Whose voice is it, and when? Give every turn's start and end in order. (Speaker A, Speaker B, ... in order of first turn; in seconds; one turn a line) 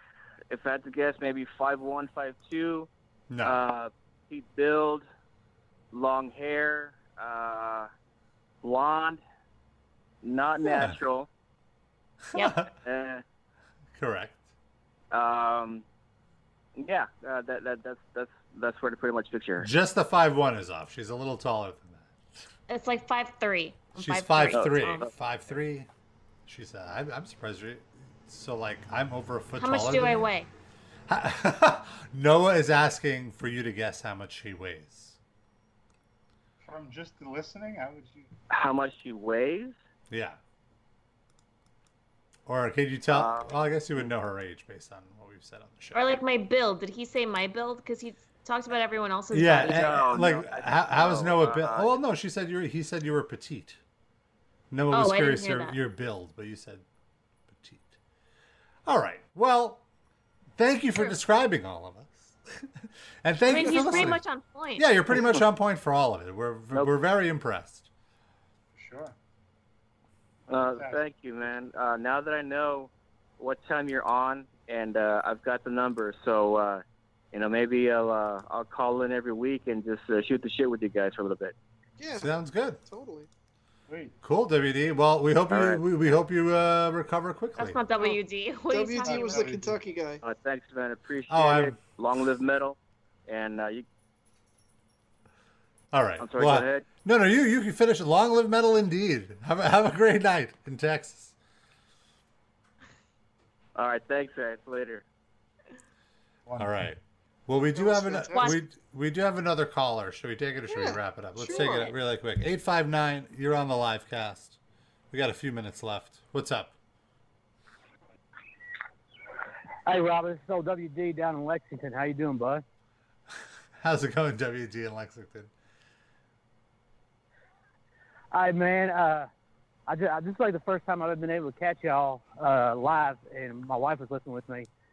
Speaker A: 0.5-2.9
Speaker B: 3.3-3.6
Speaker A: 3.4-5.0
Speaker A: 5.9-7.9
Speaker A: 8.6-9.2
Speaker A: 10.2-11.3
Speaker B: 10.7-11.0
Speaker B: 12.3-12.7
Speaker C: 12.3-12.6
Speaker A: 12.8-13.2
Speaker B: 13.9-14.5
Speaker A: 15.1-15.8
Speaker A: 16.8-19.7
Speaker B: 19.6-22.4
Speaker C: 22.7-25.1
Speaker B: 23.9-25.9
Speaker A: 24.5-25.1
Speaker B: 26.4-30.3
Speaker C: 29.6-30.5
Speaker B: 31.1-35.2
Speaker D: 36.6-38.3
Speaker A: 38.5-39.7
Speaker B: 40.1-40.4
Speaker B: 42.5-46.2
Speaker A: 43.1-44.1
Speaker C: 45.9-50.1
Speaker B: 49.3-53.8
Speaker A: 49.6-52.0
Speaker B: 54.7-56.8
Speaker C: 54.9-55.8
Speaker B: 57.5-58.0
Speaker B: 58.9-59.8
Speaker B: 60.6-62.4
Speaker B: 63.2-64.2
Speaker C: 63.5-64.9
Speaker A: 63.6-64.1
Speaker B: 64.8-67.9
Speaker D: 68.7-69.2
Speaker A: 70.5-81.5
Speaker D: 70.7-71.0
Speaker E: 82.0-82.3
Speaker B: 82.2-82.8
Speaker E: 82.8-83.3
Speaker D: 83.9-84.1
Speaker B: 84.2-87.8
Speaker A: 85.5-85.8
Speaker C: 87.6-89.6
Speaker E: 88.7-90.2
Speaker D: 89.0-89.8
Speaker A: 90.2-93.8
Speaker B: 91.3-91.8
Speaker B: 95.9-101.3
Speaker A: 96.2-96.9
Speaker A: 103.8-105.0
Speaker D: 106.5-106.7
Speaker B: 106.6-114.6
Speaker E: 107.7-108.6
Speaker C: 108.3-108.6
Speaker E: 110.7-111.9
Speaker B: 115.1-116.7
Speaker F: 119.8-122.6
Speaker B: 123.8-125.5
Speaker F: 128.3-129.3
Speaker F: 129.9-134.7